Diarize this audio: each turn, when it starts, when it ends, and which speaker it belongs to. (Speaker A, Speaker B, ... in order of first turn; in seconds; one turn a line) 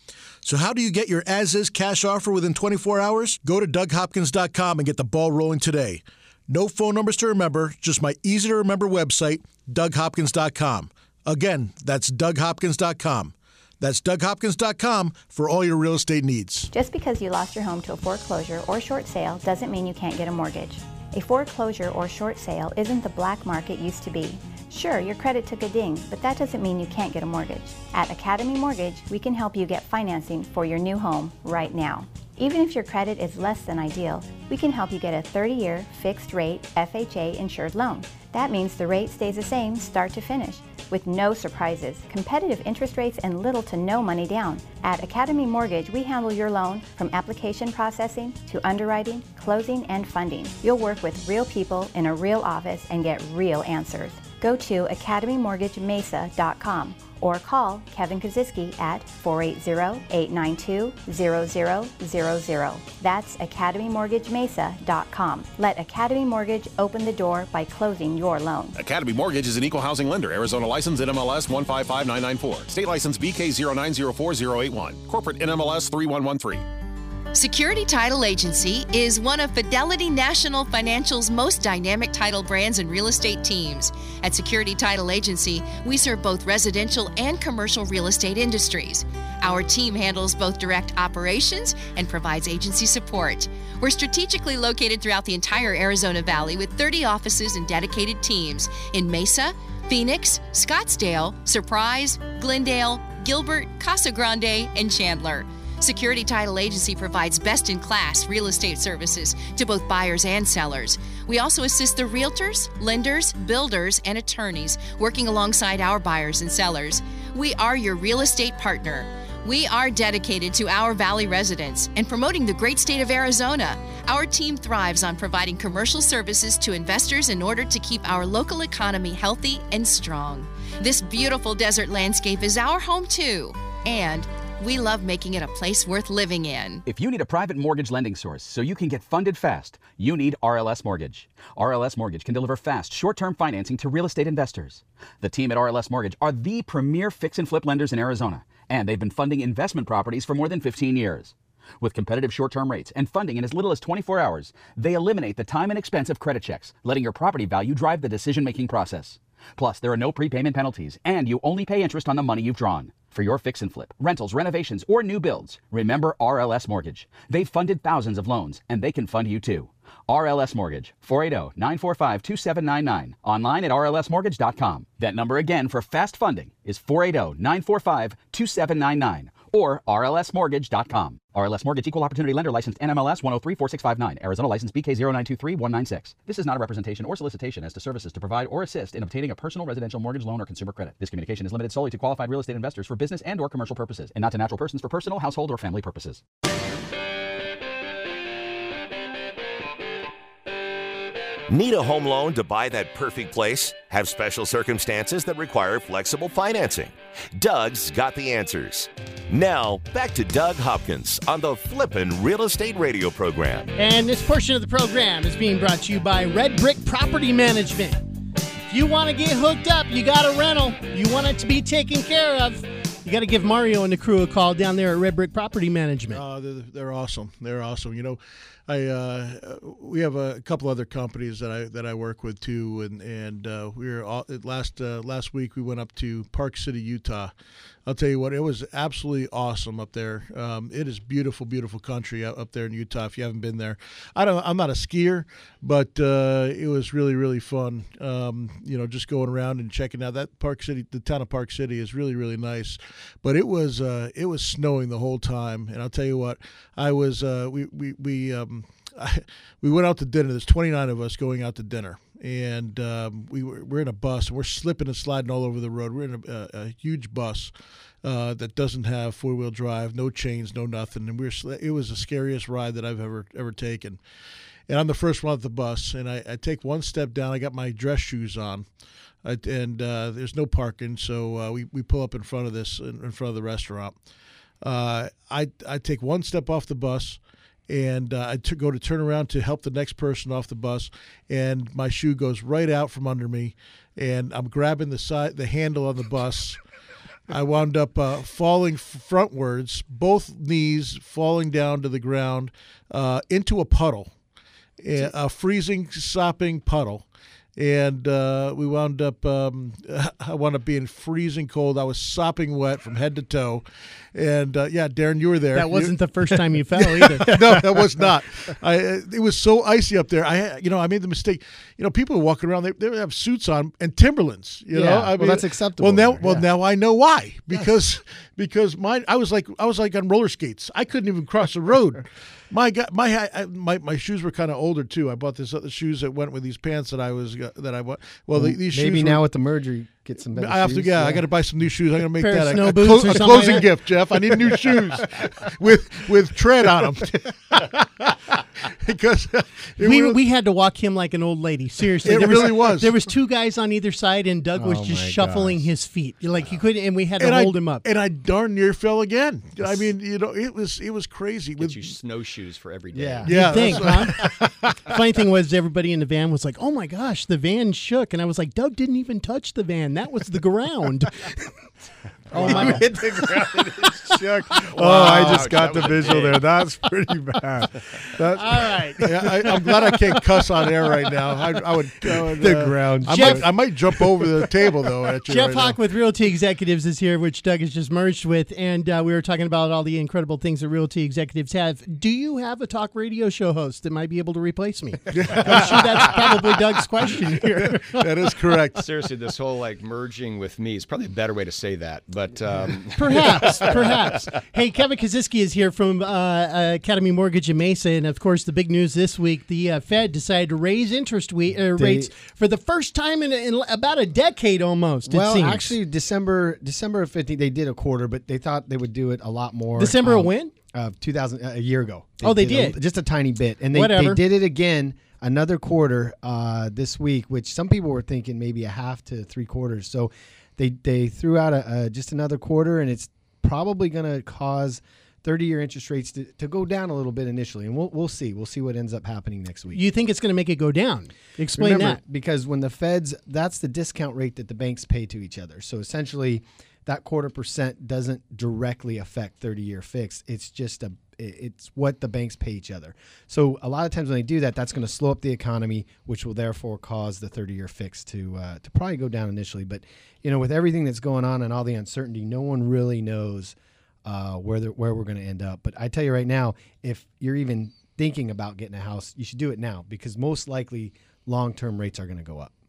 Speaker A: 0.4-16.7
Speaker B: 16.7-68.8
Speaker C: 68.8-76.7
Speaker D: 77.3-136.8
Speaker E: 136.9-196.2
Speaker F: 201.5-213.7
Speaker G: 213.8-218.0
Speaker G: 218.7-226.2
Speaker A: 226.1-237.3
Speaker A: 237.9-274.0
Speaker A: 274.7-278.7
Speaker A: 279.2-284.0
Speaker A: 284.6-296.6
Speaker A: 297.3-304.1
Speaker A: 304.8-339.2
Speaker G: 315.5-317.4
Speaker H: 317.3-317.8
Speaker H: 324.7-326.5
Speaker H: 338.4-341.3
Speaker A: 340.3-350.2
Speaker G: 342.2-343.7
Speaker G: 349.8-357.9
Speaker A: 352.0-353.0
Speaker H: 354.6-355.7
Speaker A: 357.2-361.9
Speaker I: 361.6-363.5
Speaker H: 362.9-364.3
Speaker A: 363.2-364.8
Speaker G: 363.3-364.3
Speaker G: 364.9-371.3
Speaker G: 372.3-372.9
Speaker A: 372.3-376.3
Speaker H: 372.3-379.9
Speaker I: 375.0-376.4
Speaker G: 378.4-379.2
Speaker A: 379.0-385.8
Speaker H: 382.0-384.3
Speaker G: 383.1-383.4
Speaker G: 385.3-398.1
Speaker A: 395.1-396.4
Speaker A: 397.3-398.9
Speaker I: 398.8-404.4
Speaker G: 403.0-415.7
Speaker H: 411.7-412.1
Speaker H: 415.1-439.8
Speaker G: 419.8-420.5
Speaker G: 422.2-422.8
Speaker G: 423.7-424.2
Speaker G: 439.7-442.0
Speaker H: 441.6-472.5